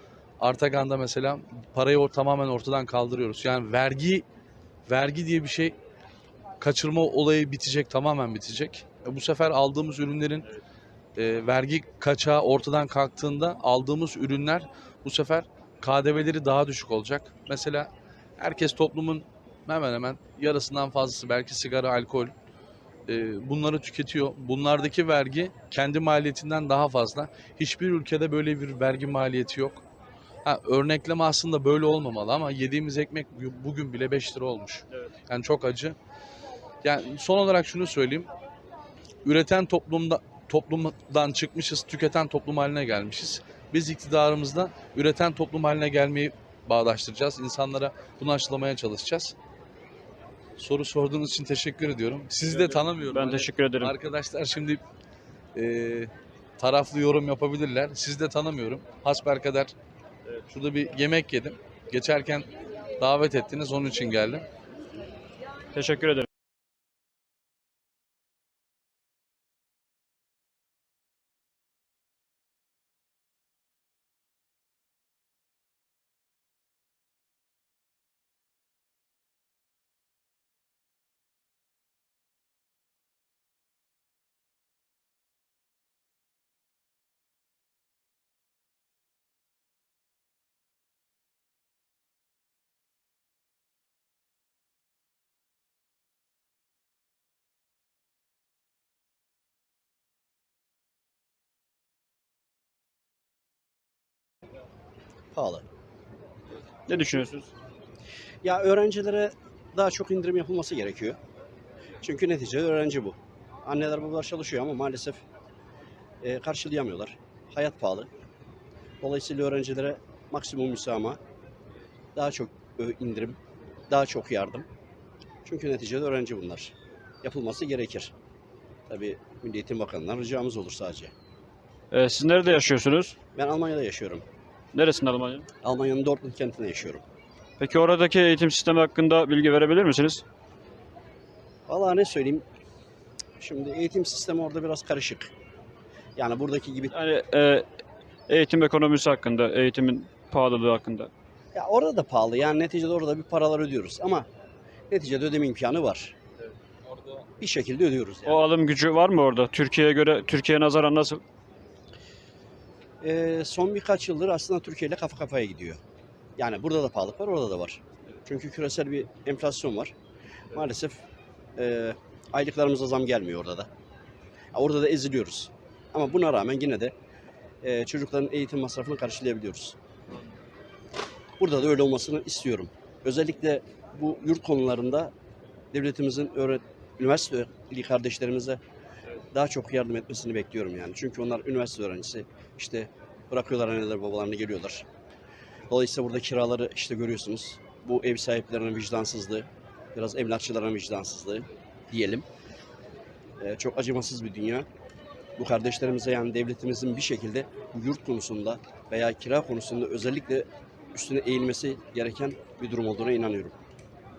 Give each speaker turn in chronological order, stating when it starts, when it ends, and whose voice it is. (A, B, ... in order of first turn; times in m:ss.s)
0:00.4-0:04.2 A
0:04.9-0:05.8 A
0:06.6-0:10.5 A
0:11.2-0:22.3 A
0:23.1-0:29.8 A
0:30.4-0:36.0 A
0:36.8-0:38.3 A
0:39.2-0:49.4 A
0:50.6-0:54.8 A
0:52.8-0:53.9 B
0:55.5-0:59.7 A
1:00.5-1:04.4 A
1:05.7-1:06.3 B
1:45.3-1:45.6 C
1:46.9-1:47.5 B
1:48.4-1:51.2 C
1:52.0-1:55.2 C
1:56.2-1:58.1 C
1:59.0-2:01.2 C
2:02.2-2:03.4 C
2:03.9-2:04.7 C
2:05.4-2:08.1 C
2:08.9-2:11.1 C
2:11.9-2:13.2 B
2:13.3-2:14.2 C
2:14.7-2:15.4 B
2:15.6-2:17.0 C
2:17.6-2:20.2 B
2:21.7-2:22.4 C
2:23.4-2:25.3 C
2:26.2-2:26.9 C
2:26.9-2:27.6 B
2:28.3-2:31.1 B
2:31.5-2:34.3 C
2:34.9-2:36.1 C
2:37.4-2:38.4 C
2:38.3-2:41.2 B
2:43.0-2:45.8 C
2:46.4-2:49.9 C
2:50.5-2:51.0 C
2:51.6-2:53.7 C
2:54.5-2:56.9 C
2:57.6-2:59.8 C
3:01.4-3:05.1 C
3:05.7-3:08.6 C
3:09.3-3:14.8 C
3:15.7-3:22.2 C
3:23.4-3:24.7 C
3:25.4-3:33.5 C